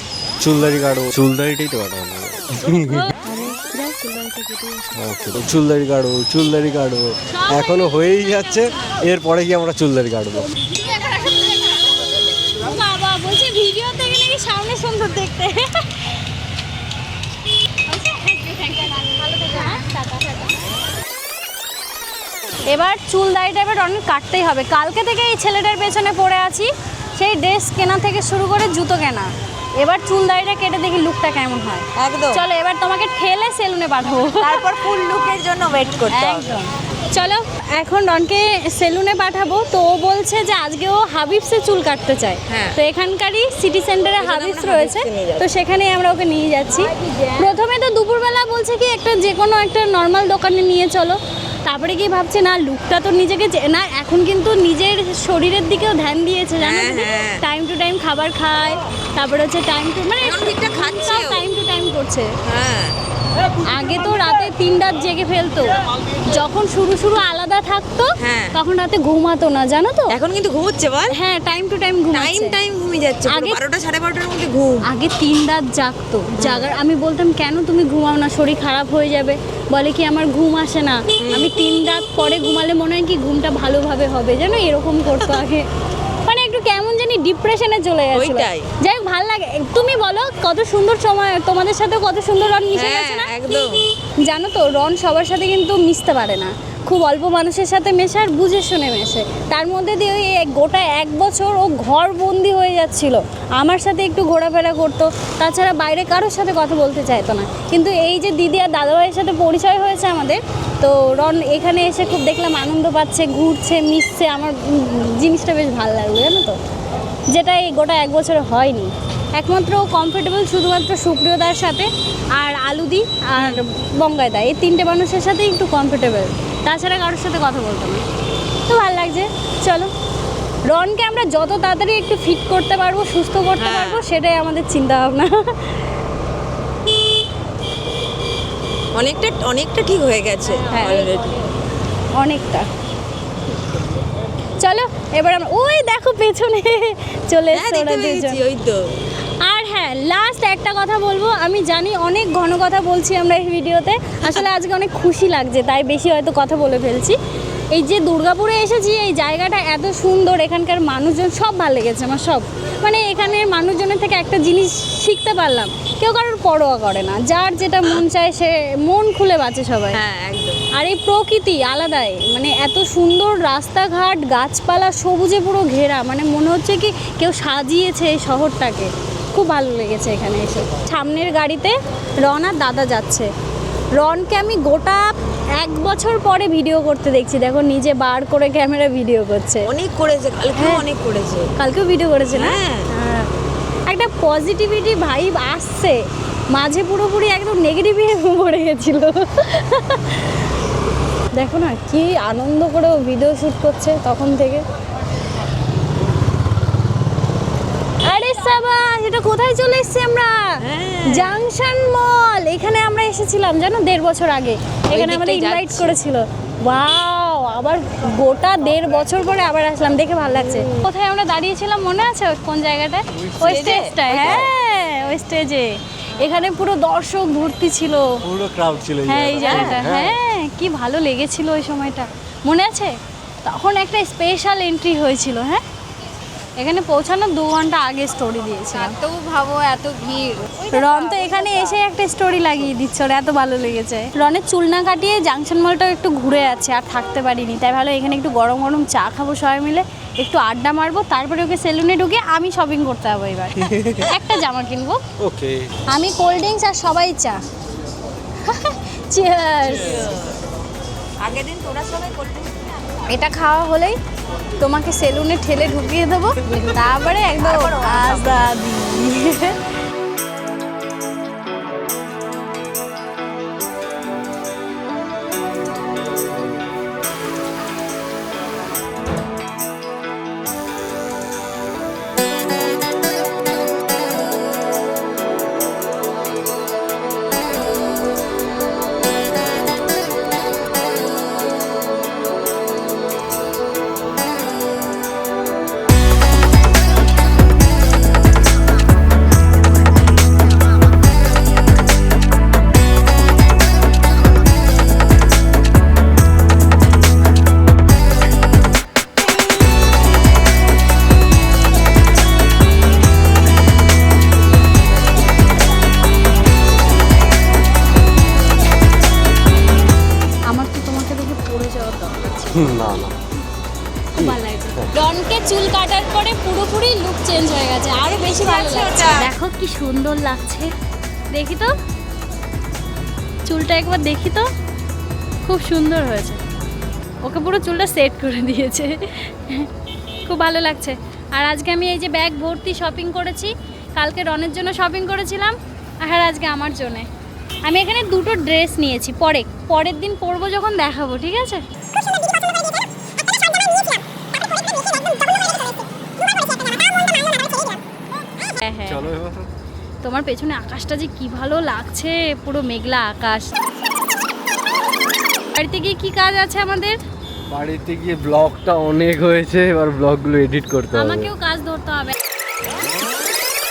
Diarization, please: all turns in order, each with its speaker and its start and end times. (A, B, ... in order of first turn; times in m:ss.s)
0:00.4-0:03.1 A
0:02.7-0:05.0 B
0:05.0-0:10.5 A
0:07.3-0:08.7 B
0:10.6-0:16.2 B
0:17.9-0:20.5 B
0:22.7-0:34.7 B
0:32.0-0:32.4 C
0:34.3-0:36.6 C
0:36.1-1:02.3 B
0:42.5-0:42.8 C
0:44.2-0:45.4 C
0:47.0-0:47.4 C
0:56.6-0:57.4 C
1:00.2-1:01.4 C
1:02.4-1:02.9 C
1:03.6-1:10.2 B
1:08.2-1:08.6 C
1:10.1-1:11.1 C
1:11.1-1:12.6 B
1:12.1-1:14.8 C
1:13.2-1:13.6 B
1:14.8-1:25.6 B
1:16.4-1:16.7 C
1:21.2-1:21.5 C
1:26.2-1:56.6 B
1:28.1-1:28.7 C
1:32.7-1:33.8 C
1:57.3-2:08.0 B
2:03.4-2:03.6 C
2:08.6-2:09.9 B
2:10.7-2:15.8 B
2:13.6-2:14.0 C
2:18.9-2:21.3 C
2:20.4-2:21.5 B
2:22.1-2:22.7 B
2:24.6-2:28.4 B
2:27.5-2:28.9 C
2:29.4-2:37.2 B
2:37.7-2:50.0 B
2:49.9-2:50.6 C
2:50.7-3:03.3 B
3:04.0-3:09.7 B
3:09.7-3:11.5 C
3:10.6-3:10.8 B
3:11.6-3:13.3 B
3:12.3-3:12.9 C
3:13.9-3:16.0 B
3:16.5-3:20.4 B
3:21.3-3:24.6 B
3:28.0-3:30.6 B
3:30.6-3:31.4 C
3:31.1-3:48.2 B
3:34.9-3:35.9 C
3:43.4-3:44.5 C
3:44.2-3:44.5 A
3:48.2-3:50.1 A
3:49.0-3:52.9 B
3:49.4-3:49.8 C
3:53.4-3:55.6 B
3:56.6-3:59.0 B
3:58.7-4:01.8 C
4:00.7-4:15.0 B
4:15.2-4:15.7 A
4:15.9-4:17.4 B
4:18.4-4:20.1 B
4:19.6-4:20.4 C
4:21.2-4:22.8 C
4:23.1-4:24.0 B
4:24.6-4:29.6 B
4:27.4-4:28.5 C
5:20.5-5:22.7 B
5:22.5-5:23.1 A
5:24.2-5:30.7 B
5:24.2-5:24.8 A
5:28.0-5:29.3 C
5:31.3-5:31.7 B
5:33.4-5:34.5 B
5:35.4-5:36.4 B
5:37.2-5:39.7 B
5:40.2-5:47.1 B
5:47.6-5:51.6 B
5:58.5-5:59.2 B
5:58.8-5:59.5 A
6:00.0-6:03.5 B
6:05.5-6:07.0 B
6:07.5-6:11.3 A
6:10.9-6:12.2 B